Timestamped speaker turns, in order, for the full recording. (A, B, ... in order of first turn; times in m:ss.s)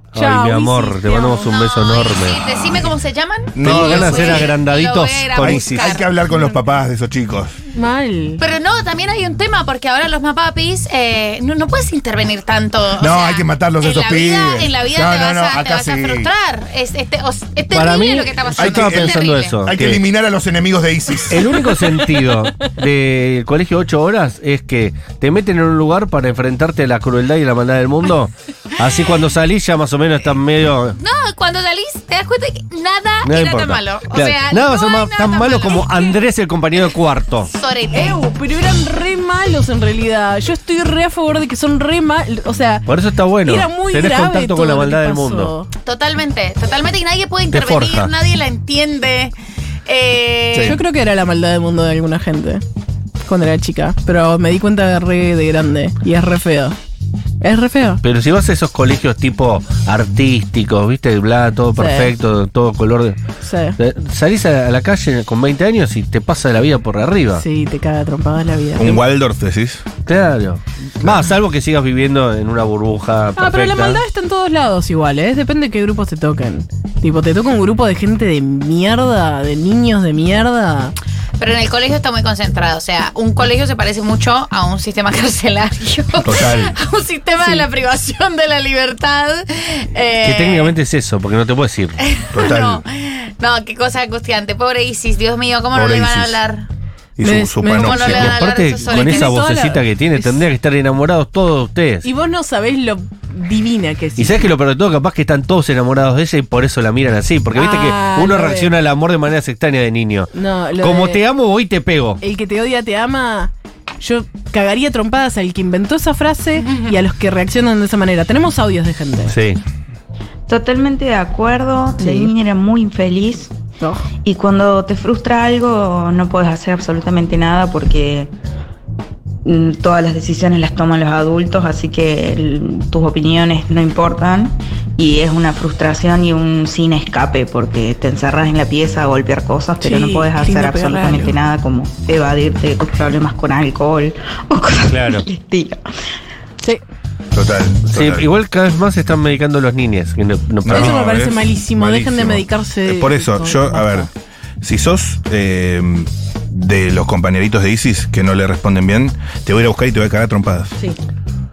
0:00.1-0:02.6 A
0:00.2-0:01.3 B
0:01.1-0:06.0 C
0:03.6-0:04.5 D
0:03.6-0:06.0 A
0:05.4-0:07.6 D
0:06.3-0:06.6 B
0:07.8-0:08.4 B
0:08.4-0:19.6 C
0:13.0-0:16.3 D
0:17.7-0:20.0 A
0:18.6-0:21.4 D
0:21.3-0:31.0 A
0:21.7-0:22.3 B
0:31.0-0:36.2 C
0:33.2-0:37.5 A
0:37.5-0:38.2 C
0:37.9-0:42.9 B
0:42.9-0:45.5 A
0:43.4-0:45.7 B
0:45.8-0:49.3 C
0:47.5-0:48.1 A
0:49.9-0:50.8 C
0:50.5-0:50.8 D
0:50.6-0:52.6 B
0:53.2-0:56.8 B
0:57.4-0:58.0 B
0:58.0-1:03.2 A
1:01.8-1:02.1 B
1:03.4-1:03.8 B
1:03.8-1:07.4 A
1:07.4-1:09.0 B
1:08.8-1:09.9 D
1:10.1-1:14.0 A
1:13.4-1:20.9 B
1:21.4-1:30.7 C
1:26.2-1:26.8 D
1:30.2-1:32.0 A
1:32.0-1:36.6 C
1:32.3-1:32.8 D
1:35.7-1:36.4 D
1:37.2-1:38.4 D
1:37.2-1:38.3 B
1:37.8-1:39.3 C
1:38.0-1:42.1 A
1:38.9-1:40.4 B
1:42.0-1:44.5 B
1:44.2-1:52.2 A
1:47.6-1:48.7 B
1:50.4-1:51.2 B
1:52.2-1:59.4 B
1:59.3-1:59.6 A
2:00.5-2:03.5 E
2:02.0-2:02.3 B
2:03.8-2:04.1 B
2:04.2-2:08.3 E
2:09.4-2:25.8 E
2:19.8-2:21.4 B
2:24.9-2:25.2 A
2:27.3-2:28.3 D
2:27.9-2:31.0 A
2:30.6-2:34.1 D
2:30.7-2:34.1 B
2:31.9-2:32.3 A
2:34.6-2:40.7 D